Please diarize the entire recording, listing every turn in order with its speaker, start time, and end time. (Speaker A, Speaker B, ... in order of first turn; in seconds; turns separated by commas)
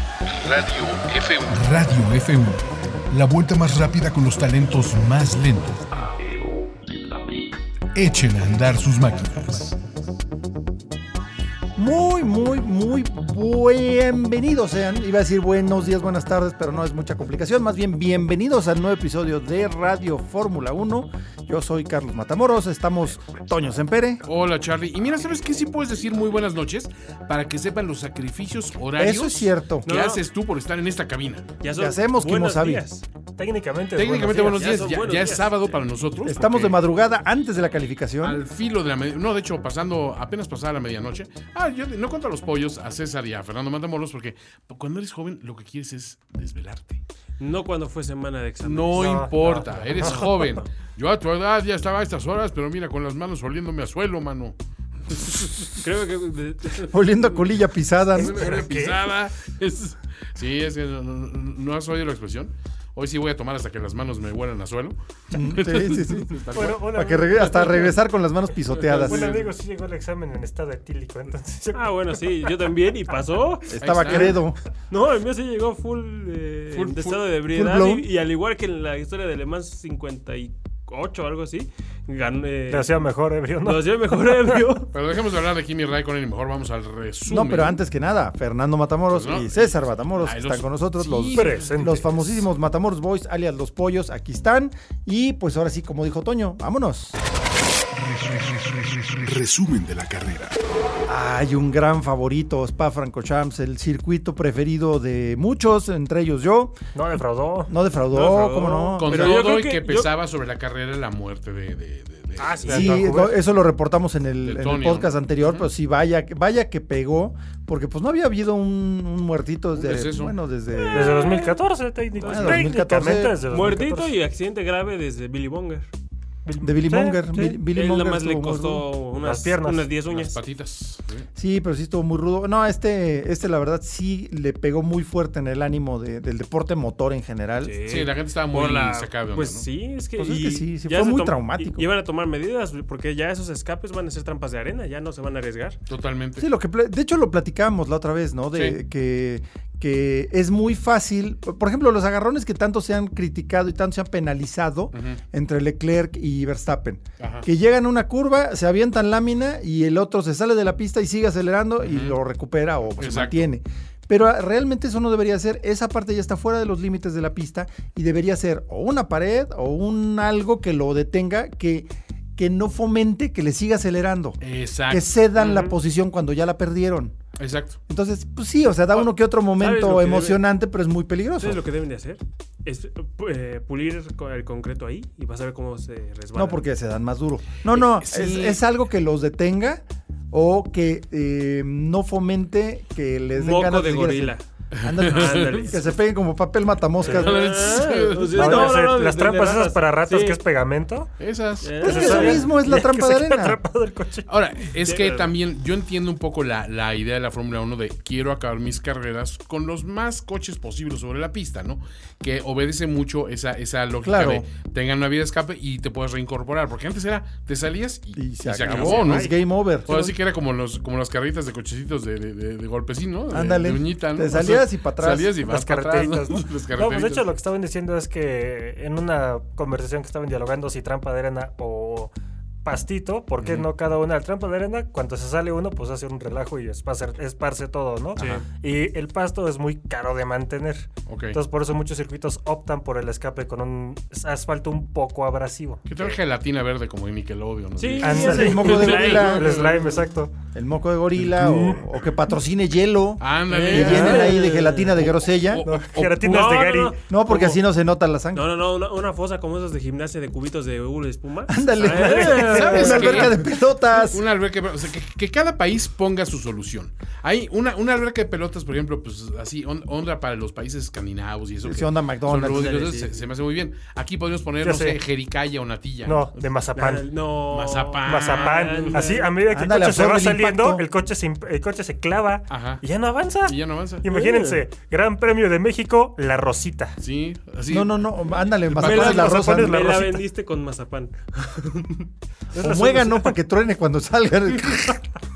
Speaker A: 0.5-6.1, Speaker B: 1.1-1.3, Speaker A: 8.0-9.8, Speaker C: 11.8-24.2, Speaker B: 24.2-31.5, Speaker C: 29.0-29.9, Speaker D: 29.9-30.2, Speaker D: 31.6-33.1, Speaker C: 31.8-32.8, Speaker E: 33.4-34.7, Speaker B: 34.0-36.8, Speaker D: 34.2-35.8, Speaker C: 36.2-38.4, Speaker B: 38.2-47.0, Speaker D: 47.4-50.7, Speaker B: 48.6-54.6, Speaker E: 49.0-50.2, Speaker B: 55.1-55.8, Speaker D: 55.8-57.0, Speaker C: 56.8-58.6, Speaker B: 58.2-66.8, Speaker E: 58.2-59.0, Speaker C: 65.3-69.4, Speaker E: 66.5-67.9, Speaker D: 68.8-69.5, Speaker E: 68.9-72.5, Speaker D: 71.8-74.4, Speaker C: 73.7-74.6, Speaker B: 73.8-74.4, Speaker D: 74.9-83.0, Speaker B: 76.7-77.2, Speaker C: 77.5-78.1, Speaker E: 82.7-84.7, Speaker D: 83.6-84.9, Speaker B: 84.9-87.8, Speaker C: 87.2-97.2, Speaker B: 89.1-92.5, Speaker E: 91.3-92.0, Speaker A: 98.1-100.6, Speaker C: 101.1-106.8, Speaker E: 107.0-107.7, Speaker C: 107.7-109.4, Speaker D: 108.1-110.1, Speaker B: 109.0-113.0, Speaker E: 112.4-113.4, Speaker C: 112.7-121.3, Speaker B: 114.4-115.7, Speaker B: 119.8-120.4, Speaker D: 120.7-121.6, Speaker E: 120.9-124.1, Speaker D: 122.2-122.7, Speaker C: 122.2-123.4, Speaker D: 123.5-125.9, Speaker E: 126.5-127.6, Speaker C: 126.6-128.9, Speaker D: 127.7-130.4, Speaker E: 129.2-129.9, Speaker B: 130.1-131.3, Speaker C: 131.3-137.8, Speaker D: 137.6-145.8, Speaker B: 137.8-139.7, Speaker C: 140.2-141.8, Speaker B: 145.9-146.5, Speaker C: 146.4-177.2, Speaker B: 148.5-148.8, Speaker B: 154.9-155.2, Speaker B: 157.2-157.5, Speaker B: 161.8-162.2, Speaker B: 163.0-163.5, Speaker B: 174.4-175.0, Speaker D: 175.4-175.8, Speaker B: 177.4-177.8, Speaker C: 177.9-181.6, Speaker D: 179.6-180.4, Speaker D: 181.4-186.6, Speaker C: 186.3-197.7, Speaker B: 187.7-188.6, Speaker D: 193.3-194.4, Speaker B: 194.7-195.7, Speaker D: 195.0-195.9, Speaker D: 197.0-200.4, Speaker B: 197.0-198.4, Speaker C: 198.3-198.8, Speaker E: 198.3-201.1, Speaker B: 201.2-201.8, Speaker D: 201.6-202.6, Speaker C: 201.8-203.6, Speaker E: 201.8-204.2, Speaker B: 204.3-219.3, Speaker D: 204.8-205.3, Speaker C: 214.0-214.4, Speaker C: 218.2-220.0, Speaker E: 218.6-219.4, Speaker B: 219.9-227.3, Speaker C: 223.3-225.3, Speaker E: 225.4-232.1, Speaker E: 232.6-246.2, Speaker B: 233.4-233.7, Speaker B: 238.2-238.4, Speaker B: 241.1-241.4, Speaker B: 245.9-249.5, Speaker D: 247.8-250.0, Speaker E: 248.0-250.3, Speaker C: 248.2-249.6, Speaker C: 250.5-255.7, Speaker E: 251.4-251.8, Speaker B: 253.2-254.4, Speaker D: 253.5-254.9, Speaker B: 255.0-256.5, Speaker E: 255.7-257.0, Speaker D: 256.2-257.6, Speaker C: 257.1-258.5, Speaker D: 258.3-263.3, Speaker C: 261.5-264.2, Speaker E: 262.1-263.1, Speaker B: 262.3-263.4, Speaker B: 264.0-276.4, Speaker C: 271.6-273.0, Speaker D: 272.6-273.2, Speaker E: 274.6-275.0, Speaker E: 276.1-277.1, Speaker D: 276.8-279.3, Speaker B: 277.4-279.0, Speaker E: 278.1-287.0, Speaker C: 279.5-280.9, Speaker B: 282.5-282.8, Speaker B: 283.5-284.0, Speaker D: 284.1-284.6, Speaker B: 287.0-289.3, Speaker C: 287.7-289.8, Speaker D: 288.7-292.1, Speaker E: 288.9-290.3, Speaker E: 292.6-293.3, Speaker C: 292.6-295.0